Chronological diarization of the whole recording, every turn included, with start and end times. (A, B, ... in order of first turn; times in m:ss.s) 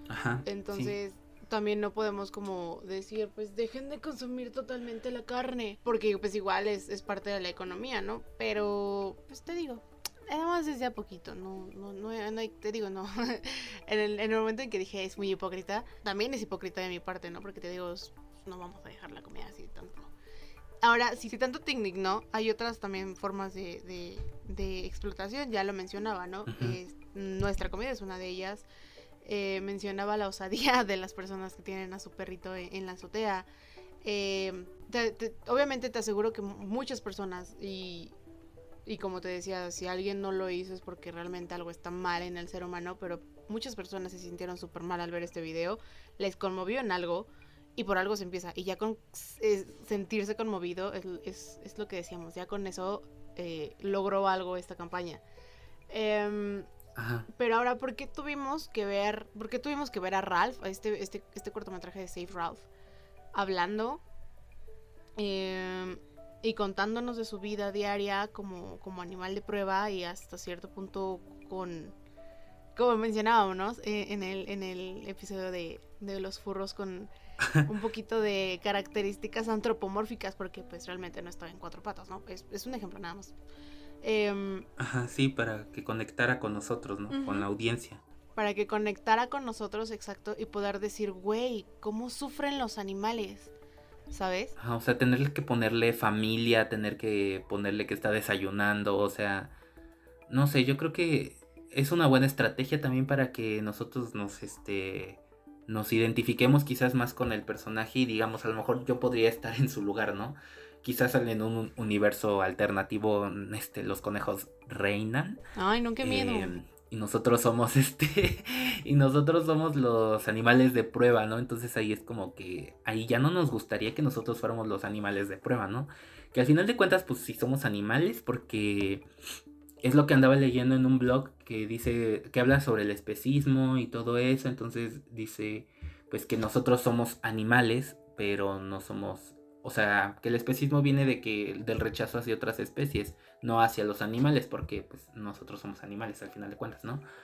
0:00.1-0:01.0 A
0:00.4-0:20.1 B
0:20.8-0:28.7 B
0:26.5-0:26.8 A
0:29.2-0:33.5 B
0:34.0-0:38.2 B
0:38.9-0:55.2 B
0:55.9-0:56.7 B
0:57.0-0:57.3 A
0:57.3-1:02.7 B
1:03.4-1:04.0 B
1:05.2-1:12.0 B
1:12.8-1:17.1 B
1:17.6-1:23.4 B
1:24.0-1:24.7 B
1:24.8-1:28.0 A
1:27.1-1:27.5 B
1:28.4-1:33.5 B
1:34.1-1:34.6 B
1:34.6-1:39.6 A
1:40.3-1:55.4 A
1:55.6-1:56.6 B
1:56.0-2:09.0 A
2:09.8-2:27.0 A